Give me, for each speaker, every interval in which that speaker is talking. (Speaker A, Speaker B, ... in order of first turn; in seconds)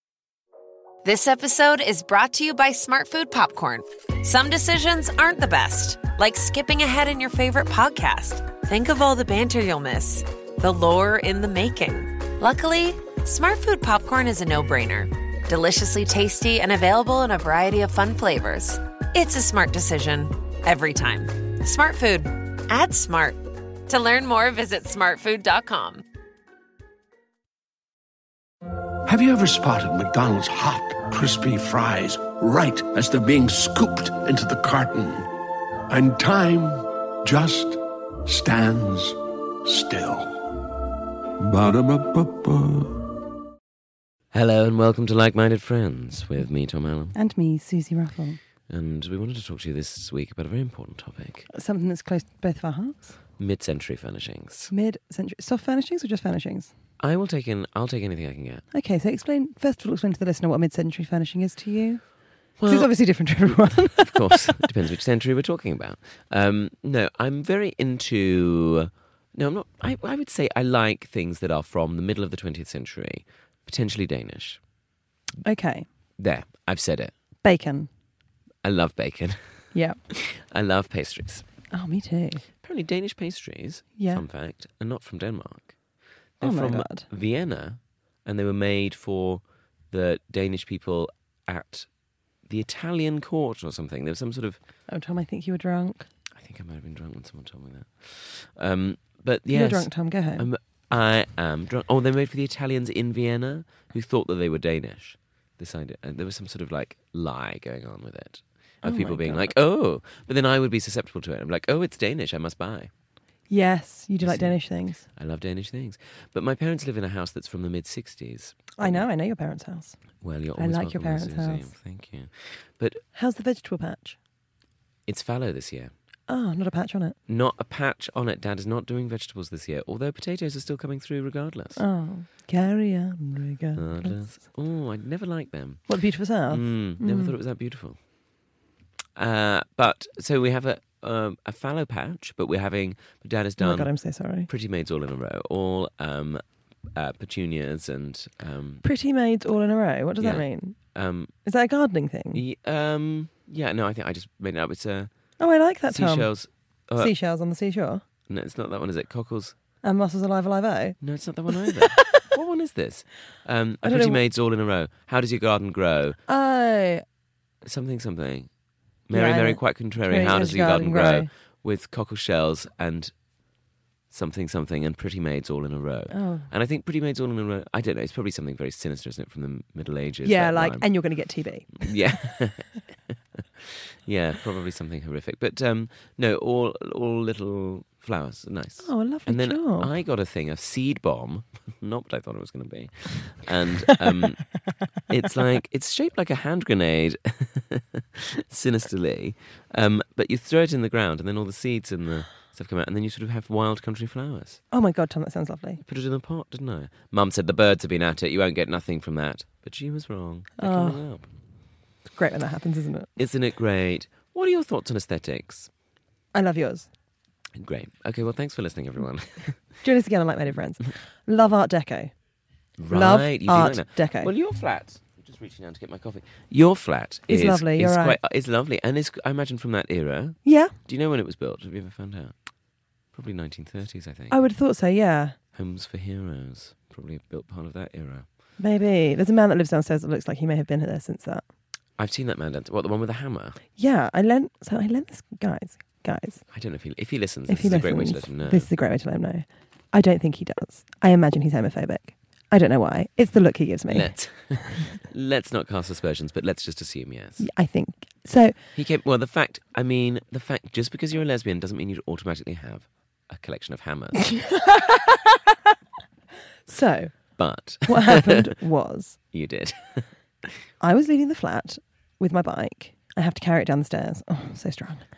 Speaker A: 1.0-26.0
Speaker B: 29.1-35.3, 35.9-40.6, 41.4-43.1
Speaker C: 44.3-47.2, 48.7-51.5, 53.4-54.7, 57.0-58.6, 62.6-74.6, 76.2-77.1, 78.6-79.5, 80.1-81.5, 82.6-85.8, 86.4-91.9, 92.5-94.6, 96.3-112.9, 114.2-119.1, 120.2-123.0, 125.1-125.9, 127.3-131.8, 133.8-135.9, 136.5-138.0, 139.2-143.9, 144.5-146.4, 146.9-148.8, 150.2-151.3, 152.3-155.1, 155.9-157.1, 158.3-159.6, 161.0-166.2, 167.6-168.5, 169.1-173.1, 174.1-180.9, 181.8-194.4, 195.1-204.6, 205.8-211.3, 213.2-215.7, 217.6-219.6, 222.8-232.3, 233.1-234.4, 235.5-238.3, 242.0-243.6, 246.5-248.7, 253.9-257.5, 258.8-264.4, 267.4-268.5, 269.3-270.5
Speaker D: 47.1-48.4, 51.5-53.1, 54.7-56.7, 58.7-62.0, 62.6-64.7, 75.4-75.9, 77.4-77.9, 81.7-82.4, 84.0-84.2, 86.4-87.1, 94.9-96.1, 99.5-100.5, 108.8-109.5, 113.5-115.0, 118.8-120.0, 120.6-121.7, 123.2-124.2, 126.3-127.2, 131.8-134.2, 135.9-137.3, 143.6-144.5, 148.8-150.8, 151.4-152.4, 155.4-156.3, 157.0-158.0, 159.8-161.0, 161.5-162.3, 163.8-164.2, 166.3-167.0, 169.1-171.3, 176.1-176.5, 180.2-181.9, 188.8-189.9, 204.7-205.8, 210.6-211.0, 212.1-213.1, 216.3-216.9, 219.8-222.1, 222.9-224.3, 227.3-228.2, 230.4-230.7, 234.3-235.4, 238.6-241.4, 243.8-246.4, 247.5-254.9, 257.4-258.6, 264.2-265.5, 266.7-267.2, 267.9-269.2, 270.8-275.1